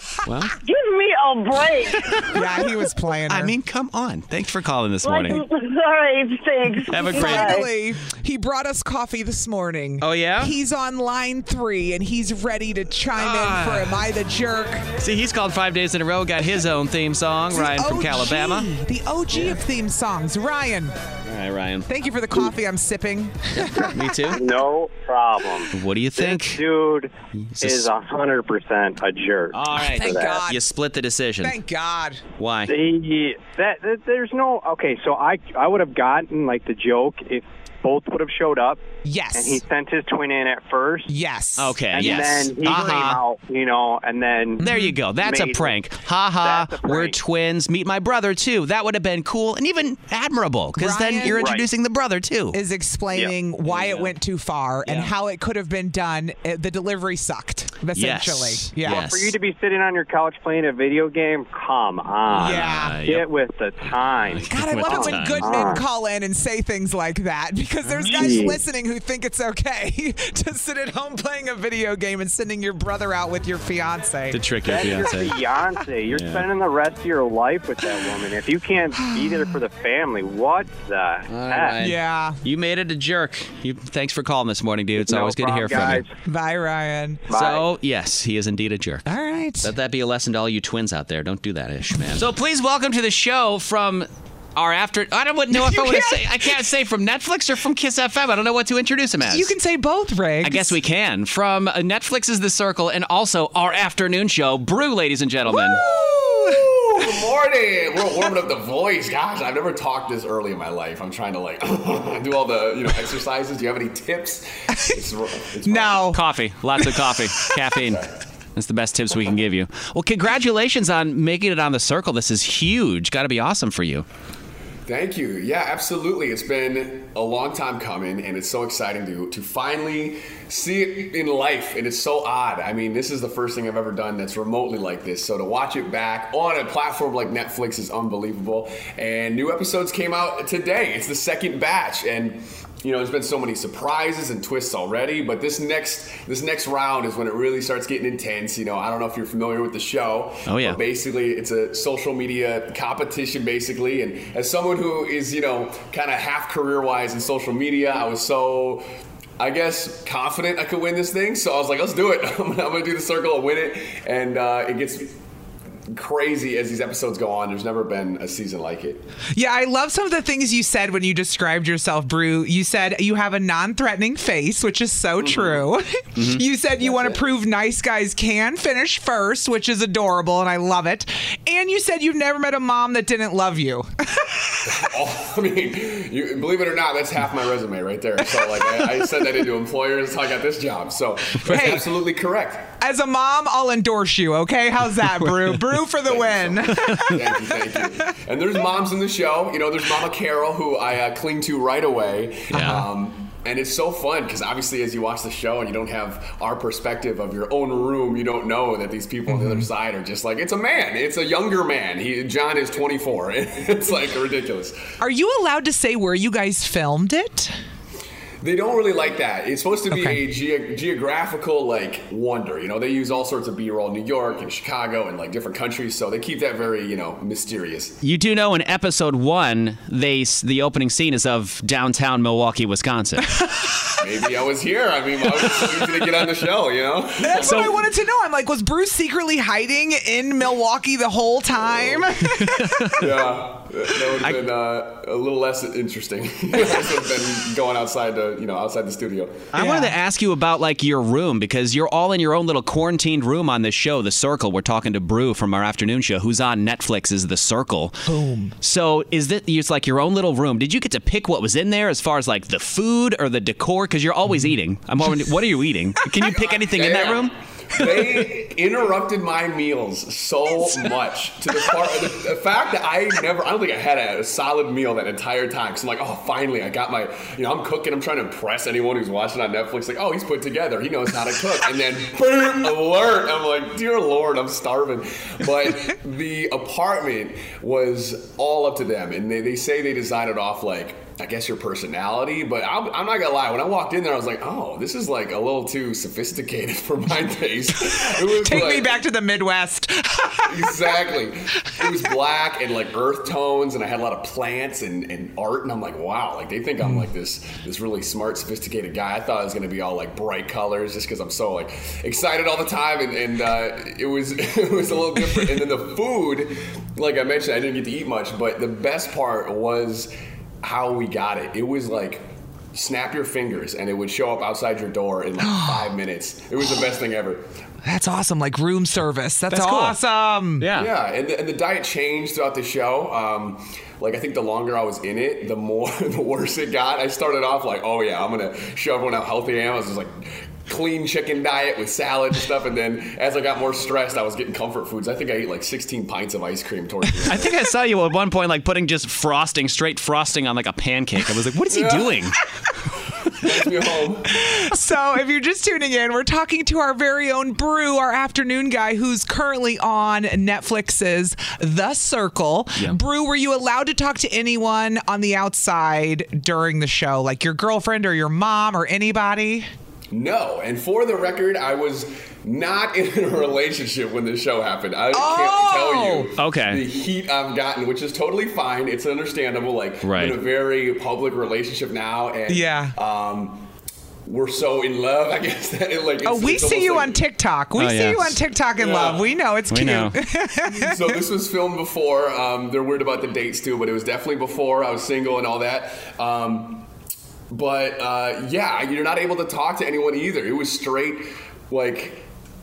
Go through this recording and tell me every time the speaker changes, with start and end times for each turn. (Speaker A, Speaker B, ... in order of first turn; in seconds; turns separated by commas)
Speaker A: 0.2-0.6, Speaker B: 0.6-2.3, Speaker C: 2.3-3.5, Speaker A: 3.3-5.4, Speaker B: 5.0-7.7, Speaker A: 6.9-7.7, Speaker C: 7.0-14.9, Speaker A: 10.0-10.5, Speaker A: 13.2-14.0, Speaker A: 15.0-18.7, Speaker C: 17.5-20.9, Speaker A: 21.3-21.9, Speaker C: 21.9-24.0, Speaker A: 23.6-24.4, Speaker D: 24.3-30.4, Speaker A: 25.7-26.6, Speaker A: 27.4-27.9, Speaker A: 29.5-31.6, Speaker C: 29.8-30.6, Speaker C: 31.4-32.2, Speaker A: 32.4-32.7, Speaker D: 32.7-38.8, Speaker C: 39.0-39.6, Speaker D: 39.4-41.1, Speaker C: 41.1-42.3, Speaker A: 41.6-43.2, Speaker D: 41.9-44.6, Speaker C: 44.6-45.0, Speaker A: 44.6-52.6, Speaker D: 45.2-45.8, Speaker D: 46.4-47.2, Speaker C: 50.8-51.5, Speaker D: 51.3-51.6, Speaker C: 52.5-59.1, Speaker A: 53.6-54.1, Speaker A: 54.9-55.1, Speaker A: 58.0-59.4, Speaker D: 58.9-65.8, Speaker A: 62.3-63.3, Speaker C: 62.4-63.0, Speaker A: 64.3-65.8, Speaker C: 64.5-74.4, Speaker A: 68.0-68.3, Speaker D: 68.0-68.6, Speaker A: 74.3-75.4, Speaker D: 74.7-81.8, Speaker A: 76.1-76.5, Speaker C: 79.0-79.5, Speaker A: 81.3-86.0, Speaker C: 81.8-82.4, Speaker D: 85.0-86.1, Speaker C: 86.2-87.2, Speaker D: 87.3-87.7, Speaker A: 87.3-89.1, Speaker C: 89.1-89.7, Speaker A: 89.6-99.5, Speaker C: 95.5-96.5, Speaker C: 99.2-100.8, Speaker A: 100.4-105.8, Speaker C: 105.5-107.1, Speaker E: 106.4-116.1, Speaker C: 114.7-115.0, Speaker C: 115.7-116.2, Speaker A: 116.1-124.0, Speaker C: 116.8-117.5, Speaker E: 124.9-158.8, Speaker A: 150.5-150.8, Speaker E: 159.4-165.1, Speaker E: 165.9-169.0, Speaker C: 169.3-184.7, Speaker E: 175.2-175.6, Speaker A: 176.2-176.4, Speaker E: 176.8-177.2, Speaker E: 184.7-192.7, Speaker C: 191.4-191.9, Speaker C: 192.8-197.2, Speaker A: 195.0-195.8, Speaker E: 196.1-214.8, Speaker A: 196.8-197.2, Speaker A: 202.5-202.9, Speaker C: 202.5-202.8, Speaker C: 209.3-209.7, Speaker C: 215.0-217.5, Speaker E: 218.4-228.0, Speaker C: 219.9-220.2, Speaker A: 228.0-233.4, Speaker E: 234.0-237.8, Speaker A: 235.4-235.8, Speaker C: 237.2-243.0, Speaker A: 237.4-237.8, Speaker E: 241.7-242.0, Speaker A: 242.2-243.1, Speaker E: 243.0-249.5, Speaker A: 244.2-244.5, Speaker A: 249.5-258.0, Speaker C: 249.6-249.9, Speaker C: 258.1-258.5, Speaker A: 258.6-267.3, Speaker E: 266.6-299.0, Speaker C: 297.9-300.8, Speaker E: 300.5-327.4, Speaker C: 325.4-325.9, Speaker C: 327.8-330.7, Speaker A: 329.5-330.0, Speaker A: 330.6-330.9, Speaker E: 330.8-347.5, Speaker A: 347.2-352.4, Speaker E: 351.8-352.1, Speaker E: 353.4-354.4, Speaker C: 354.3-369.7, Speaker E: 370.1-383.7, Speaker C: 375.1-376.3, Speaker A: 376.4-376.8, Speaker A: 380.0-380.4, Speaker C: 382.5-382.9, Speaker E: 384.3-387.2, Speaker C: 386.2-391.1, Speaker A: 387.8-388.4, Speaker E: 388.8-389.3, Speaker A: 389.7-390.2, Speaker E: 390.7-396.9, Speaker E: 397.5-402.2